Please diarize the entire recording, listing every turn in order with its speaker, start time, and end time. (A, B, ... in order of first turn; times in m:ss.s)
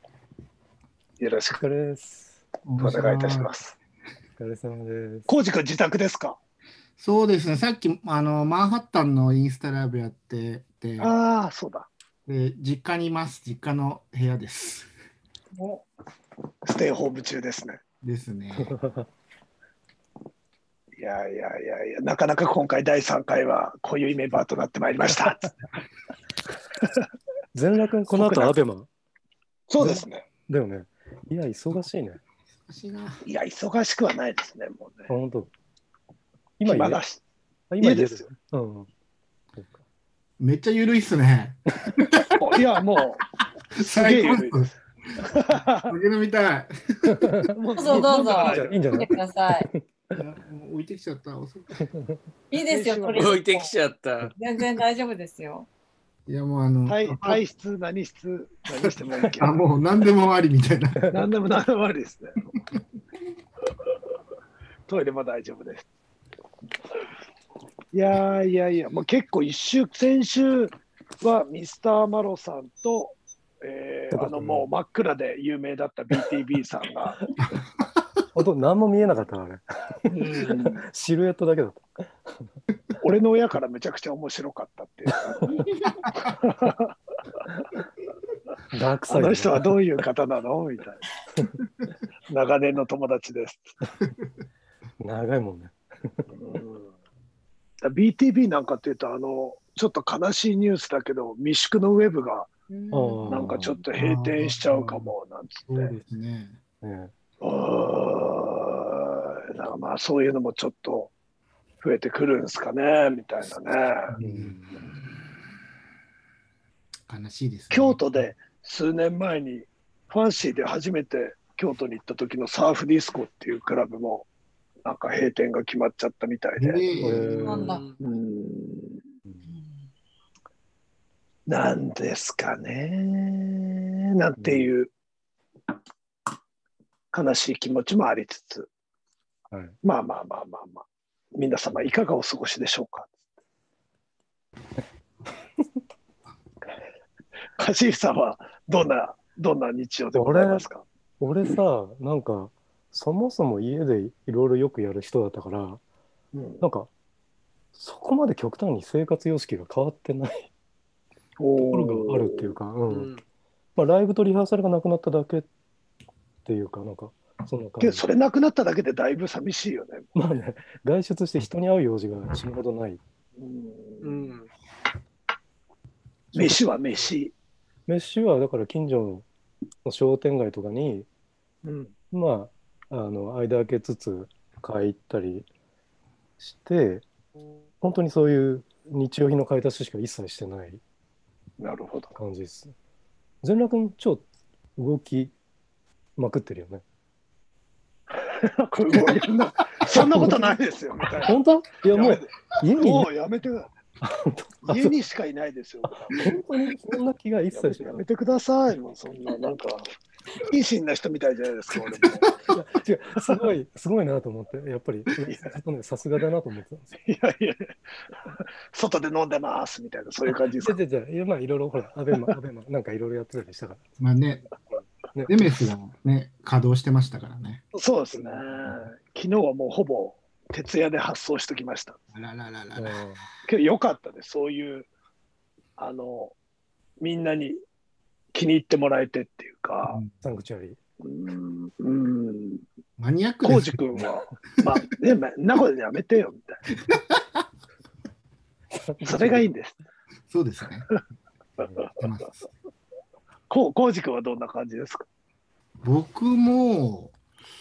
0:01.2-0:01.6 A
0:01.6-0:02.4 B
0:02.7-0:03.5 C
0:02.8-0:03.8 A
0:04.4-0:05.3 B
0:05.3-0:06.4 A
0:07.0-0:11.1 C
0:11.0-0:11.9 A
0:12.3-0:14.9 C
0:15.5-0:15.8 D
0:16.6-0:17.8 A
0:18.0-0:18.8 C
0:18.6-0:19.1 B
0:21.0-0:25.5 A
0:27.5-0:28.9 B
0:28.1-0:28.6 A
0:29.7-0:30.3 A
0:29.8-0:32.2 B
0:32.6-0:33.2 C
0:33.2-0:35.1 A
0:35.1-0:35.5 B
0:36.6-0:37.0 B
0:36.6-0:37.2 A
0:37.7-0:38.9 B
0:37.8-0:38.3 A
0:40.4-0:42.4 C
0:42.4-0:43.2 A
0:43.8-0:44.7 C
0:43.9-0:46.0 A
0:45.8-0:47.4 C
0:47.0-0:50.2 B
0:47.5-0:49.1 A
0:47.8-0:49.7 D
0:50.1-0:51.9 C
0:51.8-0:52.2 B
0:52.5-0:53.6 D
0:52.6-0:53.6 A
0:53.2-0:54.3 E
0:54.4-0:55.7 D
0:56.3-0:57.4 C
0:56.9-0:59.6 A
0:58.9-1:01.0 C
1:01.0-1:01.3 B
1:01.1-1:02.4 A
1:04.9-1:05.9 A
1:07.9-1:17.2 A
1:14.1-1:14.7 B
1:18.3-1:22.3 B
1:20.1-1:20.8 A
1:23.0-1:25.6 A
1:25.9-1:26.3 C
1:26.2-1:26.9 A
1:28.7-1:29.8 B
1:29.1-1:31.0 A
1:32.3-1:33.7 A
1:35.0-1:36.2 B
1:36.3-1:36.9 A
1:37.8-1:42.5 A
1:42.7-1:43.8 D
1:42.9-1:43.8 B
1:43.2-1:46.0 A
1:43.9-1:45.1 C
1:45.7-1:46.6 C
1:46.8-1:47.1 B
1:47.4-1:51.1 A
1:51.8-1:54.2 A
1:54.1-1:54.8 C
1:54.2-1:54.6 B
1:57.1-1:58.3 C
1:57.7-2:04.3 A
2:04.8-2:06.8 A
2:06.6-2:07.5 C
2:07.0-2:07.8 B
2:07.2-2:08.0 E
2:07.4-2:07.8 D
2:08.0-2:09.0 A
2:11.5-2:14.9 A
2:14.4-2:14.7 B
2:17.1-2:18.7 A
2:19.5-2:19.8 B
2:19.8-2:23.1 A
2:27.6-2:30.8 A
2:30.1-2:30.6 B
2:31.2-2:35.8 B
2:36.3-2:36.6 A
2:36.6-2:36.9 B
2:37.7-2:40.5 B
2:41.4-2:42.5 A
2:41.7-2:43.1 B
2:42.9-2:43.2 E
2:43.8-2:45.5 B
2:46.4-2:48.1 B
2:47.8-2:50.1 A
2:50.2-2:53.0 B
2:53.4-2:54.2 A
2:54.0-2:54.5 E
2:56.3-2:57.3 A
2:57.9-2:59.3 B
2:59.8-3:01.1 B
3:01.6-3:01.9 A
3:02.1-3:05.5 B
3:06.4-3:07.1 B
3:07.8-3:10.8 B
3:11.6-3:12.1 A
3:12.2-3:12.8 B
3:13.4-3:15.3 B
3:16.2-3:16.8 B
3:18.2-3:21.4 A
3:19.8-3:20.6 B
3:21.2-3:23.1 B
3:21.9-3:23.7 A
3:24.0-3:25.0 B
3:24.7-3:26.4 A
3:25.8-3:28.0 B
3:27.5-3:32.3 A
3:32.5-3:37.0 B
3:35.3-3:35.6 A
3:37.0-3:37.7 A
3:38.7-3:40.8 A
3:40.6-3:43.9 B
3:44.0-3:44.5 C
3:44.5-3:45.5 B
3:45.3-3:47.6 C
3:47.7-3:52.0 A
3:48.2-3:48.5 B
3:52.1-3:53.0 C
3:52.8-3:53.3 B
3:53.5-3:54.9 A
3:55.8-3:56.4 A
3:57.0-3:57.6 A
3:58.3-4:00.0 A
3:59.9-4:00.1 C
4:00.2-4:00.8 B
4:01.0-4:02.6 A
4:03.0-4:04.1 C
4:03.4-4:06.6 A
4:06.9-4:07.4 C
4:08.8-4:09.5 B
4:09.0-4:09.8 A
4:10.3-4:10.9 C
4:11.6-4:11.9 B
4:12.0-4:12.4 C
4:13.5-4:15.1 A
4:15.8-4:17.2 C